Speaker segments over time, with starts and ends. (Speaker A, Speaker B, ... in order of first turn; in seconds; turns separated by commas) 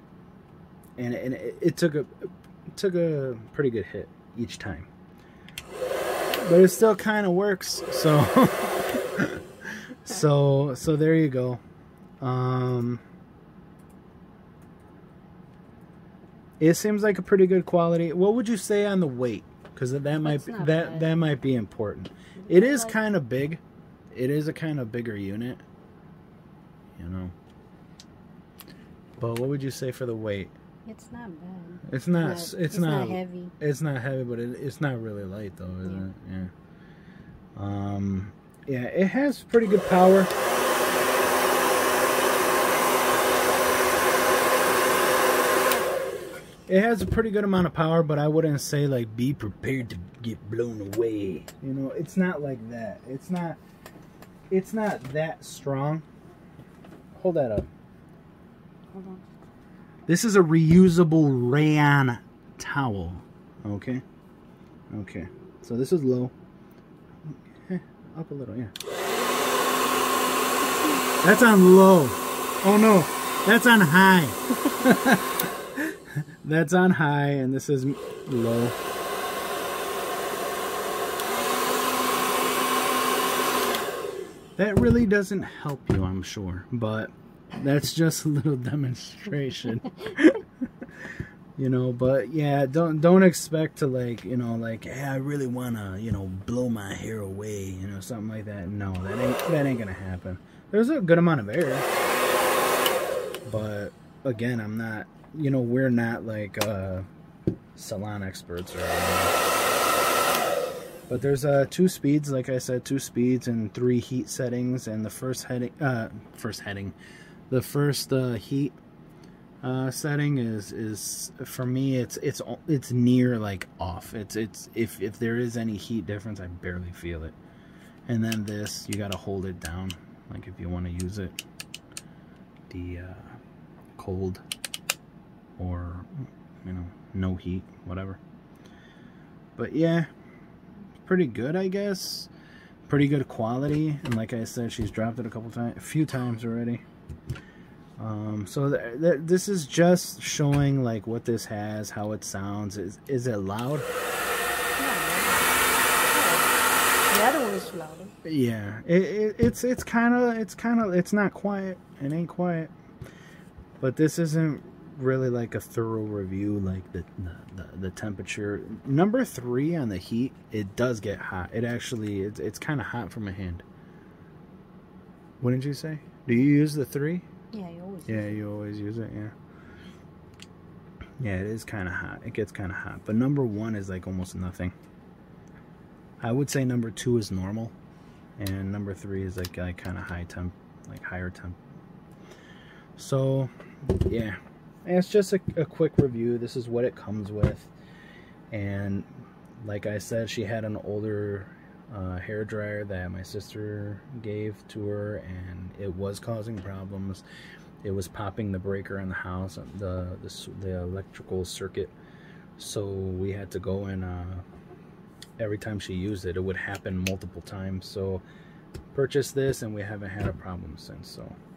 Speaker A: 1.0-4.9, Speaker A: 6.3-11.6, Speaker A: 12.2-13.0, Speaker A: 16.6-23.6, Speaker B: 20.2-21.1, Speaker B: 22.4-22.9, Speaker A: 24.1-25.6, Speaker A: 27.0-27.3, Speaker A: 29.2-30.5, Speaker B: 30.9-33.5, Speaker A: 31.8-36.5, Speaker A: 37.6-40.3, Speaker A: 46.7-53.6, Speaker A: 54.5-56.0, Speaker A: 57.1-57.7, Speaker B: 58.9-59.2, Speaker A: 60.1-64.0, Speaker A: 64.9-66.3, Speaker A: 67.2-68.7, Speaker A: 71.2-78.8, Speaker A: 84.6-90.5, Speaker A: 91.0-101.9, Speaker A: 103.4-107.1, Speaker A: 107.8-109.4, Speaker A: 111.1-117.0, Speaker A: 117.5-118.8, Speaker A: 119.6-127.3, Speaker A: 128.1-131.4, Speaker A: 132.7-133.4, Speaker A: 133.9-134.4, Speaker A: 135.6-138.2, Speaker A: 139.6-140.1, Speaker A: 141.0-142.3, Speaker A: 142.9-146.8, Speaker A: 148.0-153.9, Speaker B: 154.8-156.5, Speaker B: 157.1-158.1, Speaker A: 158.2-162.7, Speaker A: 163.8-173.6, Speaker A: 175.4-177.3, Speaker B: 177.5-178.4, Speaker A: 178.1-179.3, Speaker A: 181.2-184.7, Speaker A: 186.2-187.7, Speaker A: 188.4-191.6, Speaker A: 193.0-197.7, Speaker A: 198.5-199.1, Speaker A: 199.6-207.2, Speaker A: 207.8-211.9, Speaker A: 212.6-214.4, Speaker A: 215.4-218.2, Speaker A: 218.9-221.4